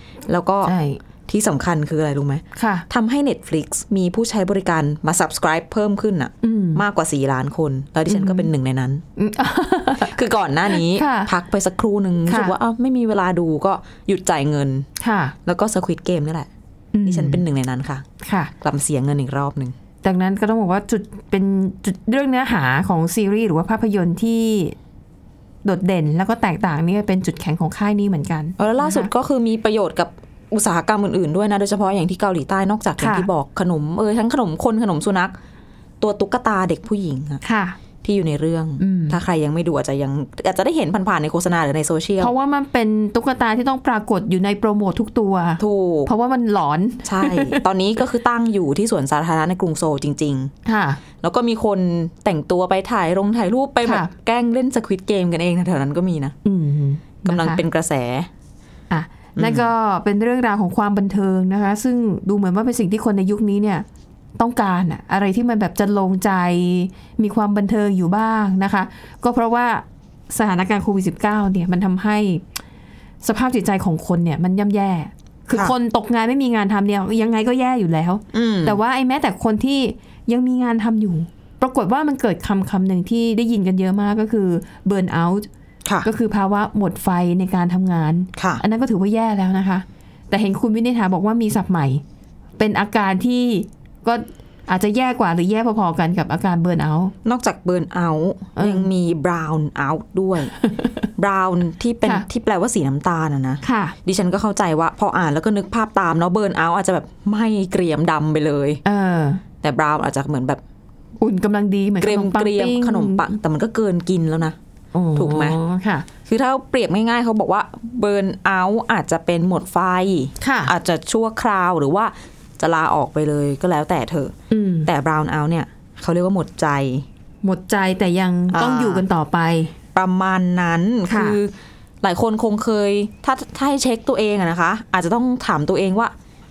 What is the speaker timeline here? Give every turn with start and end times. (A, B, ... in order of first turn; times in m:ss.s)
0:00.3-0:00.7 A
0:00.6-0:01.0 B
0:01.2-0:09.0 A
0:02.6-0:02.8 B
0:06.4-0:06.8 B
0:08.1-0:08.5 B
0:09.2-0:10.2 B
0:10.0-0:14.9 A
0:10.7-0:11.3 B
0:12.2-0:12.5 B
0:15.0-0:15.3 B
0:15.4-0:16.5 A
0:16.9-0:17.4 B
0:17.0-0:18.0 A
0:18.2-0:18.5 B
0:18.6-0:19.7 A
0:20.0-0:24.8 B
0:25.6-0:29.1 B
0:28.6-0:35.3 A
0:33.0-0:33.3 B
0:36.0-0:37.4 A
0:37.4-0:37.8 B
0:38.0-0:42.3 A
0:38.8-0:39.2 B
0:42.2-0:47.6 B
0:45.6-0:46.1 A
0:47.0-0:50.5 A
0:50.6-0:51.0 B
0:51.2-0:56.3 A
0:53.8-0:54.1 B
0:56.4-0:57.6 B
0:57.2-0:58.3 A
0:58.9-1:03.8 B
0:59.4-0:59.7 A
1:04.4-1:12.4 B
1:13.2-1:25.5 B
1:18.3-1:18.8 A
1:26.0-1:32.0 B
1:28.4-1:28.6 A
1:32.6-1:37.1 B
1:37.2-1:40.5 A
1:38.6-1:38.9 B
1:40.6-1:41.0 B
1:41.2-1:48.8 A
1:43.6-1:43.9 B
1:48.8-1:49.4 B
1:49.6-1:50.6 A
1:51.2-1:53.3 B
1:52.0-1:54.6 A
1:54.9-1:56.0 B
1:55.1-1:55.6 A
1:56.2-2:07.0 A
2:00.4-2:00.7 B
2:04.5-2:04.9 B
2:07.4-2:09.7 B
2:08.5-2:09.0 A
2:09.9-2:16.1 A
2:11.0-2:11.4 B